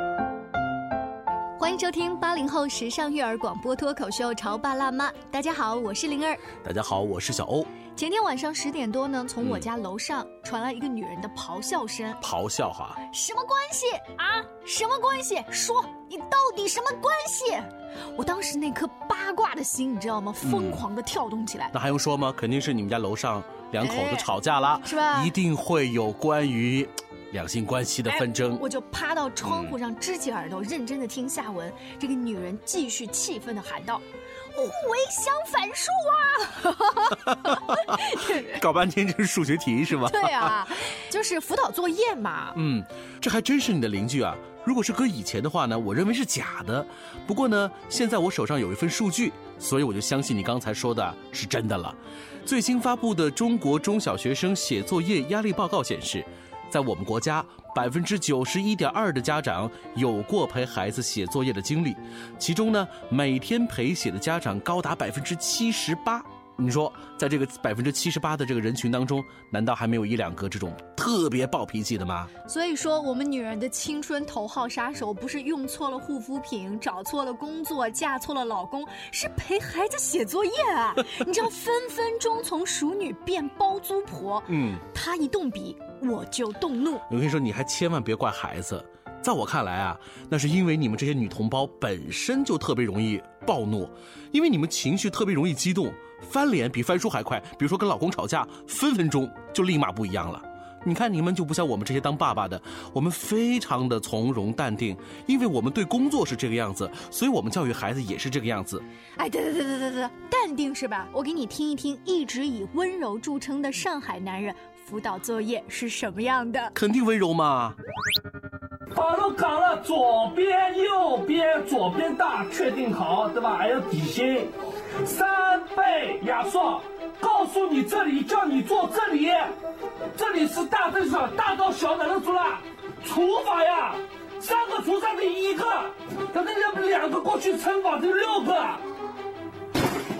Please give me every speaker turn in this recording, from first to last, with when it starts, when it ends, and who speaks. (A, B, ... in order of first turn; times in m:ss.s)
0:01.6-0:06.4 A
0:06.6-0:07.7 B
0:08.0-0:12.2 A
0:12.2-0:13.0 B
0:13.1-0:21.7 A
0:20.4-0:20.8 B
0:21.7-0:28.6 B
0:23.8-0:24.3 A
0:24.8-0:25.3 A
0:28.1-0:38.5 A
0:29.5-0:29.7 B
0:38.5-0:40.5 B
0:40.1-0:42.6 A
0:42.6-1:12.3 B
1:12.5-1:27.0 A
1:24.5-1:24.8 B
1:27.1-1:48.8 B
1:49.2-1:56.7 A
1:56.7-1:57.8 B
1:58.9-2:04.5 C
2:05.0-2:09.5 C
2:10.1-2:18.8 C